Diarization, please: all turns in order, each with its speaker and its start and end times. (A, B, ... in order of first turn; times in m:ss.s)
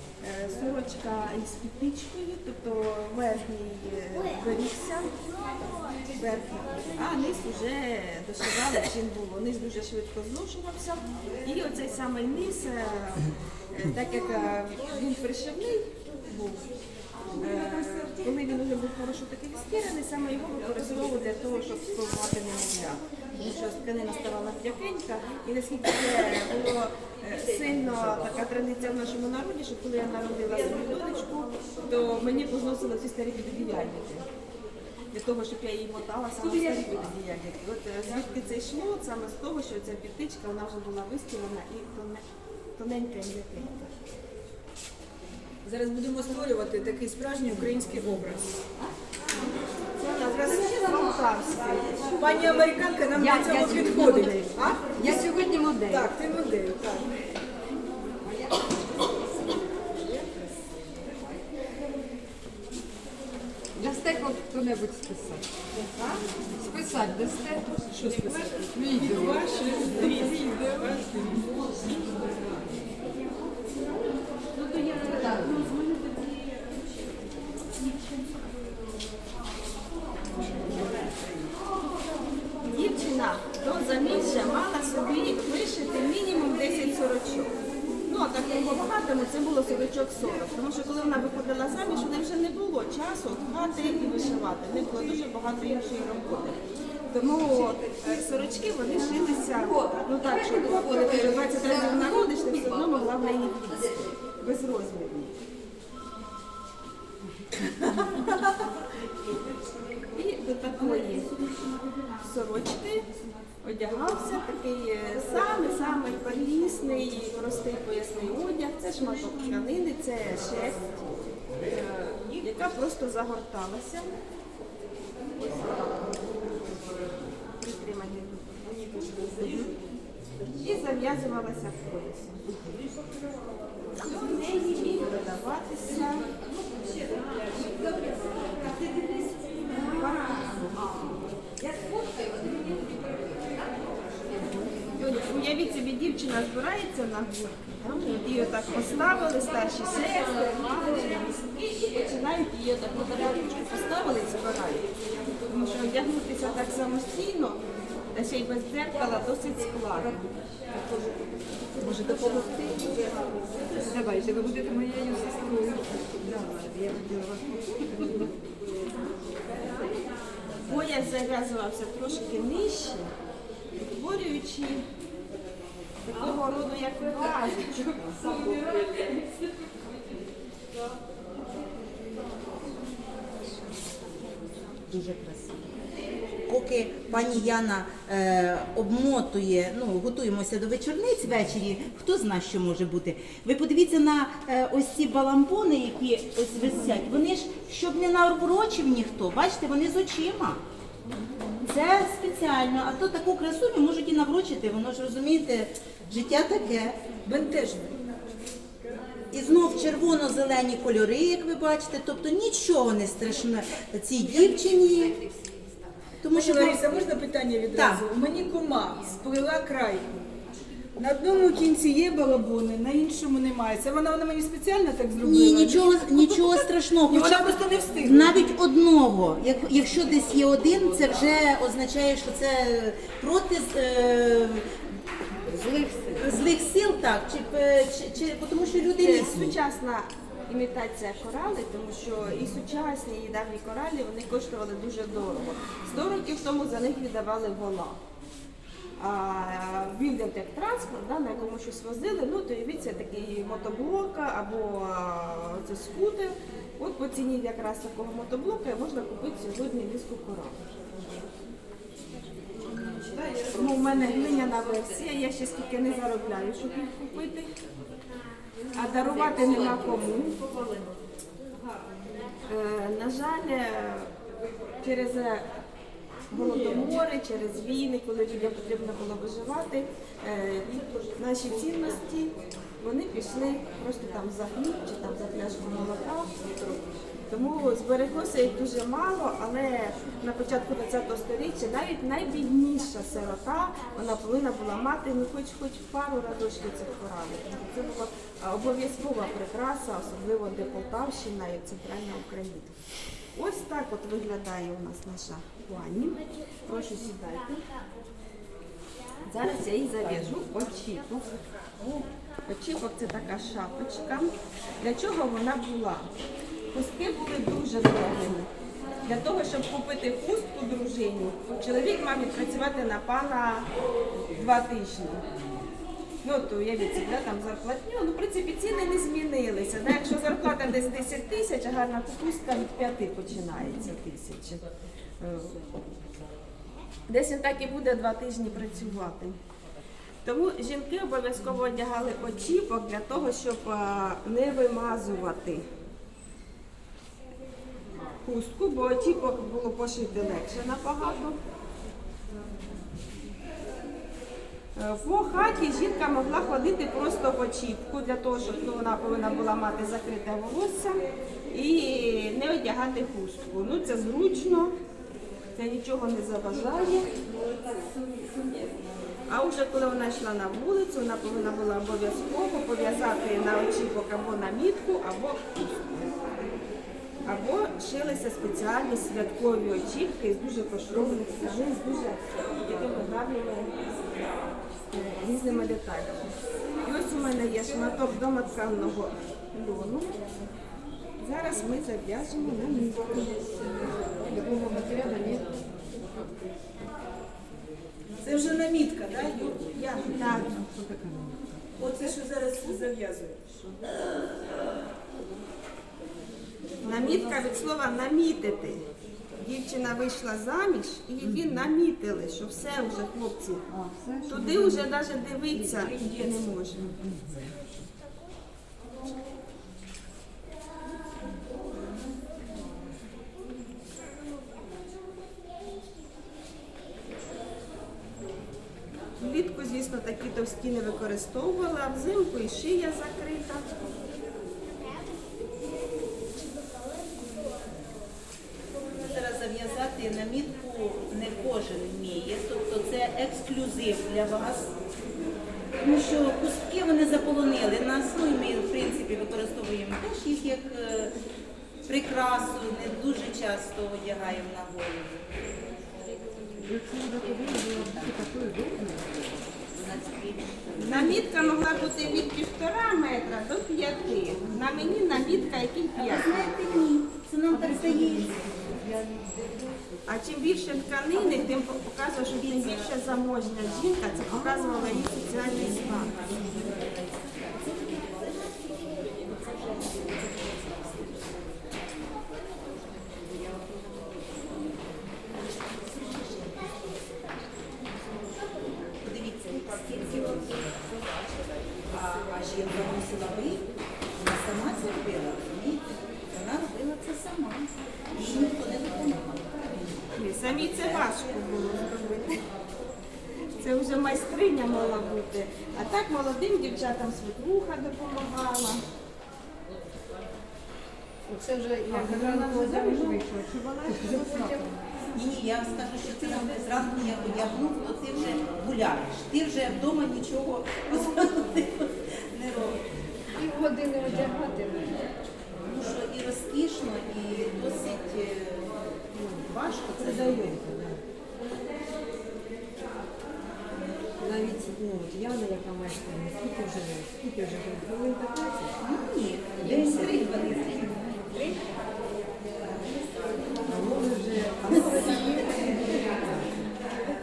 0:00.2-0:05.1 A
0:06.2-0:16.6 A
0:17.4-0:34.3 A
0:35.1-0:42.2 A
0:42.8-0:43.9 A
0:45.6-0:48.6 B
0:50.0-0:52.7 A
0:52.1-0:57.1 B
0:53.1-0:56.1 C
0:53.6-0:54.4 A
1:03.8-1:05.5 C
1:06.6-1:07.7 C
1:07.9-1:11.6 B
1:07.9-1:10.4 A
1:08.7-1:09.5 C
1:15.0-1:15.6 C
1:22.7-1:27.6 A
1:28.1-1:45.4 A
1:39.7-1:43.3 C
1:50.1-1:51.3 A
1:52.2-1:53.1 A
1:53.6-2:01.1 A
2:01.7-2:04.1 A
2:05.4-2:06.1 A
2:07.6-2:09.7 A
2:10.6-2:12.7 A
2:14.0-2:16.3 A
2:16.6-2:19.6 C
2:19.7-2:21.2 A
2:21.6-2:25.2 C
2:25.0-2:34.9 A
2:35.5-2:37.6 A
2:38.1-2:40.3 A
2:41.8-2:43.1 C
2:42.0-2:43.2 A
2:43.7-2:48.3 C
2:49.5-2:50.1 C
2:50.6-2:53.1 A
2:53.8-2:54.9 A
2:56.0-2:58.6 A
3:04.9-3:05.7 D
3:06.5-3:20.6 D
3:21.6-3:27.0 D
3:27.2-3:28.0 B
3:29.3-3:35.2 D
3:34.2-3:36.2 C
3:36.2-3:37.0 D
3:36.3-3:40.3 B
3:37.7-3:38.1 D
3:38.8-3:39.2 C
3:41.0-3:48.4 B
3:45.2-3:54.7 D
3:55.5-3:56.3 C
3:56.2-3:59.6 D
3:59.0-4:08.0 A
4:09.0-4:20.7 A
4:22.8-4:24.0 C
4:23.5-4:27.5 A
4:28.7-4:30.4 A
4:29.0-4:29.8 C
4:32.4-4:34.2 A
4:34.8-4:35.5 A
4:36.3-4:46.3 A
4:47.3-5:02.8 A
5:03.3-5:07.6 A
5:09.2-5:11.3 A
5:12.5-5:16.1 A
5:16.7-5:18.5 A
5:19.0-5:23.7 A
5:24.3-5:25.2 A
5:26.2-5:34.6 A
5:35.2-5:35.6 A
5:37.1-5:39.4 A
5:40.2-5:45.6 A
5:48.2-5:51.4 A
5:54.8-6:04.7 A
6:05.6-6:07.2 A
6:09.3-6:15.6 A
6:17.2-6:23.8 A
6:24.9-6:26.3 A
6:26.8-6:30.2 A
6:31.2-6:33.9 A
6:34.3-6:35.5 C
6:38.2-6:40.6 B
6:40.1-6:40.6 A
6:40.4-6:41.6 C
6:41.8-6:43.4 B
6:46.8-6:48.8 A
6:49.4-6:53.6 A
6:53.7-6:54.8 C
6:54.3-6:57.4 A
6:55.5-6:56.3 C
7:09.2-7:13.8 A
7:18.9-7:24.7 D
7:25.8-7:31.1 D
7:31.8-7:35.2 D
7:36.6-7:39.5 C
7:37.2-7:38.3 D
7:39.7-7:42.3 D
7:40.8-7:46.4 A
7:46.0-7:49.6 D
7:47.5-7:48.7 C
7:50.1-7:56.1 A
7:51.2-7:51.5 D
7:52.4-7:53.0 D
7:55.0-8:01.4 D
8:05.7-8:06.6 D
8:09.0-8:11.2 D
8:11.8-8:13.6 D
8:14.2-8:19.8 D
8:20.2-8:22.4 A
8:20.6-8:21.2 D
8:23.6-8:28.8 A
8:31.3-8:34.8 C
8:31.9-8:32.9 B
8:35.1-8:42.8 D
8:43.4-8:45.0 C
8:45.6-8:50.6 D
8:49.2-8:51.0 C
8:54.2-8:58.7 C
8:58.8-9:00.9 D
8:59.6-9:01.6 C
9:03.7-9:06.4 C
9:04.6-9:06.0 D